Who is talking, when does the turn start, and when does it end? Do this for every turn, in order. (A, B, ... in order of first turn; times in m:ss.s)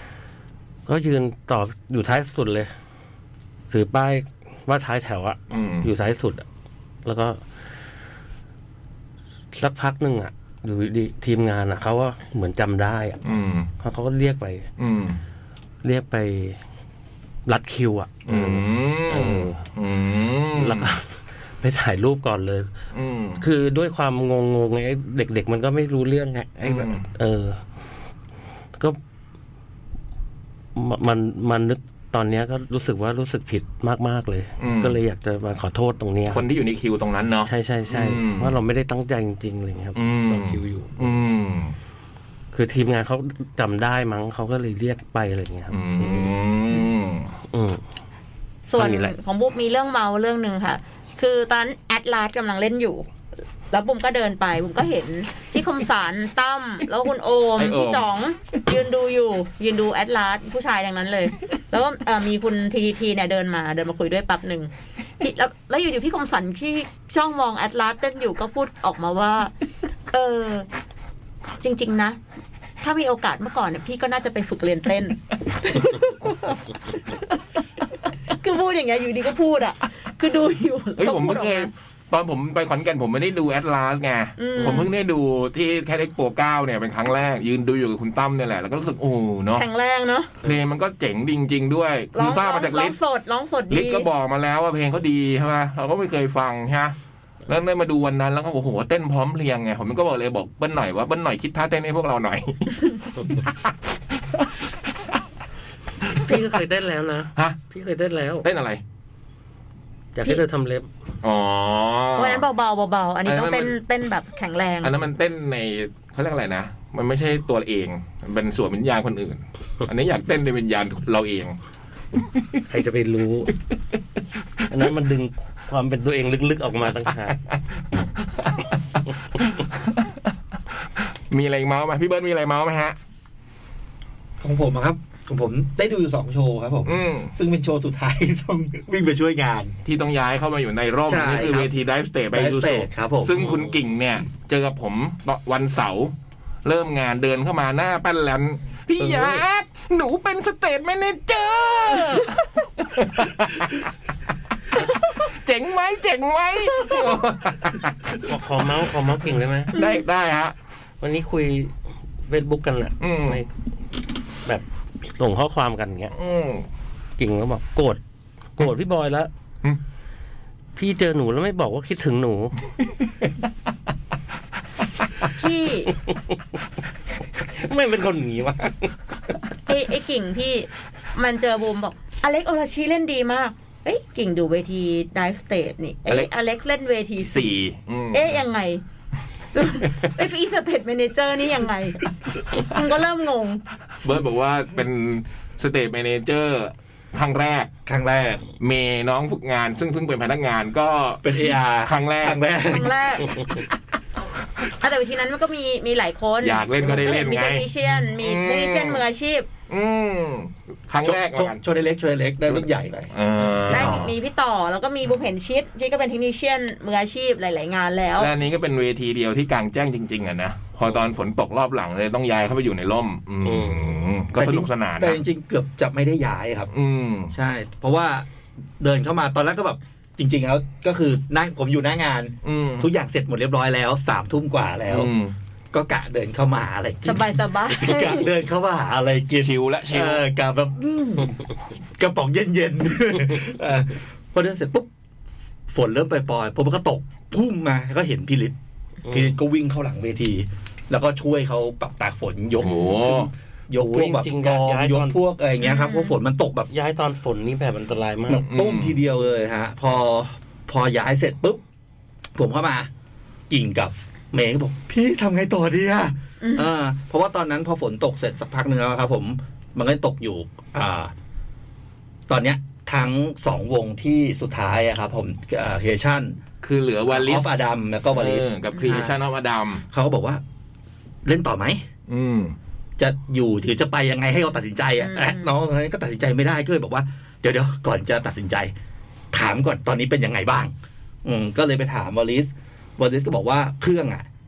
0:00.9-0:02.7 A
0:03.7-0:06.4 A
0:05.5-0:05.9 B
0:07.0-0:07.4 A
0:09.5-0:13.2 A
0:13.2-0:13.7 B
0:13.8-0:14.7 A
0:14.8-0:15.2 B
0:15.8-0:16.6 A
0:17.4-0:19.6 A
0:18.3-0:20.9 B
0:20.5-0:22.7 A
0:22.9-0:23.4 B
0:23.4-0:27.6 A
0:26.6-0:27.0 B
0:30.8-0:36.4 A
0:34.6-0:35.0 B
0:36.3-0:38.5 B
0:37.4-0:41.2 A
0:39.9-0:41.7 B
0:42.5-0:46.3 A
0:45.7-0:47.3 B
0:47.5-0:47.8 A
0:48.7-0:53.1 C
0:48.8-0:49.1 A
0:53.7-1:09.5 C
0:57.6-0:58.0 B
1:10.1-1:10.7 C
1:11.6-1:12.2 C
1:12.8-1:17.2 C
1:18.3-1:21.7 C
1:21.0-1:29.6 B
1:24.4-1:24.9 C
1:29.6-1:30.3 C
1:30.4-1:33.0 B
1:32.1-1:34.1 C
1:33.7-1:36.9 B
1:37.5-1:43.7 B
1:46.0-1:46.6 B
1:46.2-1:48.4 A
1:48.4-1:48.8 B
1:50.1-1:50.9 A
1:51.2-1:52.4 B
1:52.2-1:54.9 C
1:53.2-1:53.8 B
1:54.8-2:01.6 B
2:02.7-2:03.5 A
2:04.7-2:07.4 A
2:09.3-2:10.1 B
2:10.7-2:13.0 B
2:14.4-2:19.7 D
2:16.8-2:17.3 B
2:19.8-2:26.1 B
2:21.0-2:21.7 D
2:22.3-2:23.4 D
2:26.6-2:33.9 B
2:29.0-2:29.4 A
2:34.9-2:38.3 B
2:38.2-2:39.7 A
2:39.7-2:40.5 B
2:39.7-2:40.0 C
2:41.0-2:41.7 A
2:42.2-2:43.5 A
2:43.0-2:43.4 B
2:44.4-2:46.1 A
2:46.1-2:46.6 B
2:47.2-2:48.0 A
2:48.6-2:49.3 A
2:50.8-2:52.5 A
2:55.3-2:55.9 C
2:57.4-2:58.9 A
2:59.6-3:07.5 C
3:07.2-3:08.4 B
3:08.1-3:08.8 C
3:09.5-3:13.6 C
3:14.0-3:17.7 B
3:17.8-3:18.5 D
3:18.6-3:22.4 B
3:21.2-3:23.6 D
3:22.7-3:23.4 C
3:24.8-3:29.5 C
3:26.4-3:27.7 B
3:28.2-3:29.0 B
3:29.7-3:31.6 B
3:31.0-3:34.1 D
3:32.5-3:34.1 B
3:33.7-3:38.3 C
3:38.2-3:45.2 B
3:43.4-3:44.0 A
3:44.4-3:46.7 D
3:46.7-3:47.3 B
3:47.3-3:48.3 D
3:48.8-3:55.1 D
3:52.4-3:52.9 B
3:54.9-3:55.4 B
3:55.7-4:01.4 D
3:57.0-3:58.3 C
3:59.4-4:00.2 B
4:02.0-4:04.9 D
4:05.7-4:08.6 D
4:09.0-4:09.4 A
4:09.1-4:16.7 D
4:12.6-4:13.3 B
4:13.8-4:15.2 A
4:15.6-4:16.1 C
4:16.7-4:18.4 A
4:18.3-4:21.6 D
4:18.5-4:19.0 B
4:22.4-4:22.9 D
4:23.5-4:31.1 D
4:26.4-4:26.7 C
4:32.3-4:36.4 D
4:36.6-4:37.5 B
4:37.1-4:39.2 D
4:38.1-4:39.8 B
4:39.9-4:40.4 D
4:41.2-4:41.8 D
4:42.1-4:42.6 B
4:43.0-4:48.7 D
4:45.0-4:45.5 C
4:49.3-4:50.7 D
4:51.2-4:54.3 D